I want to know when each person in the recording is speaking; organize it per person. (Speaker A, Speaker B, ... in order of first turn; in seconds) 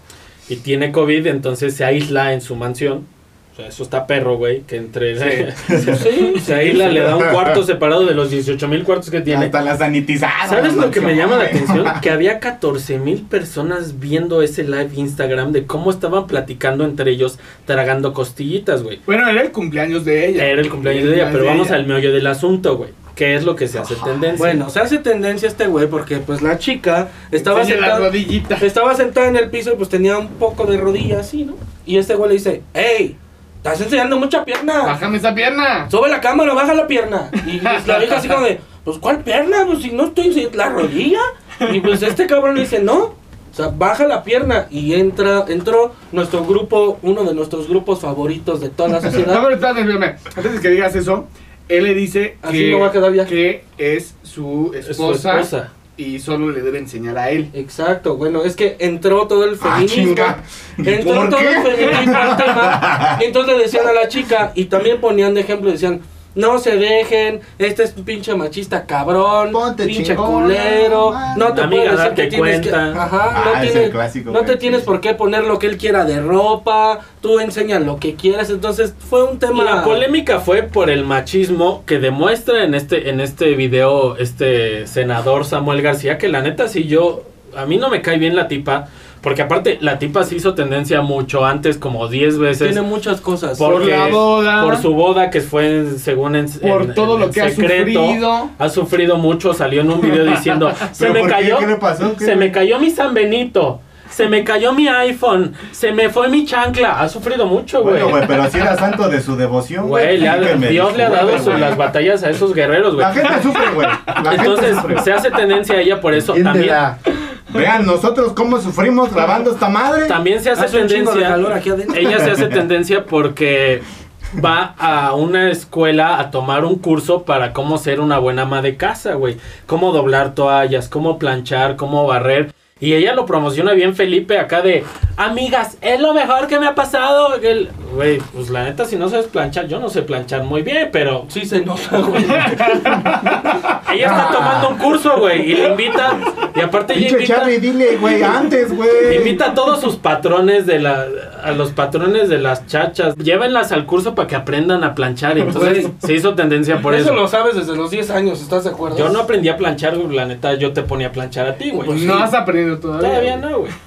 Speaker A: 0.5-9.5, 10.4-19.0, 20.4-24.6, 54.8-55.7, 71.5-73.0, 79.5-92.8, 93.6-108.3, 109.8-113.5, 114.2-116.8, 120.1-123.8, 124.3-141.3, 143.8-147.6, 149.1-157.2, 158.9-162.3, 163.0-163.7
Speaker B: 5.2-5.5, 19.1-21.8, 27.4-28.7, 34.8-35.9, 37.5-38.4, 49.1-57.5, 93.6-94.8, 96.6-98.5, 142.4-143.4, 161.8-163.4
Speaker C: 5.7-6.0, 6.8-7.6, 9.3-12.0, 59.6-63.2, 69.5-71.5, 73.0-74.9, 100.9-102.5, 107.8-111.8, 113.0-115.1, 116.1-117.0, 117.5-120.2, 144.0-144.9, 146.9-149.4
Speaker D: 5.7-6.8, 24.4-35.0, 35.9-49.5, 52.4-53.3, 57.5-80.0, 92.6-94.0, 120.5-122.3, 141.3-143.3, 155.5-155.9, 156.9-159.2, 161.8-162.2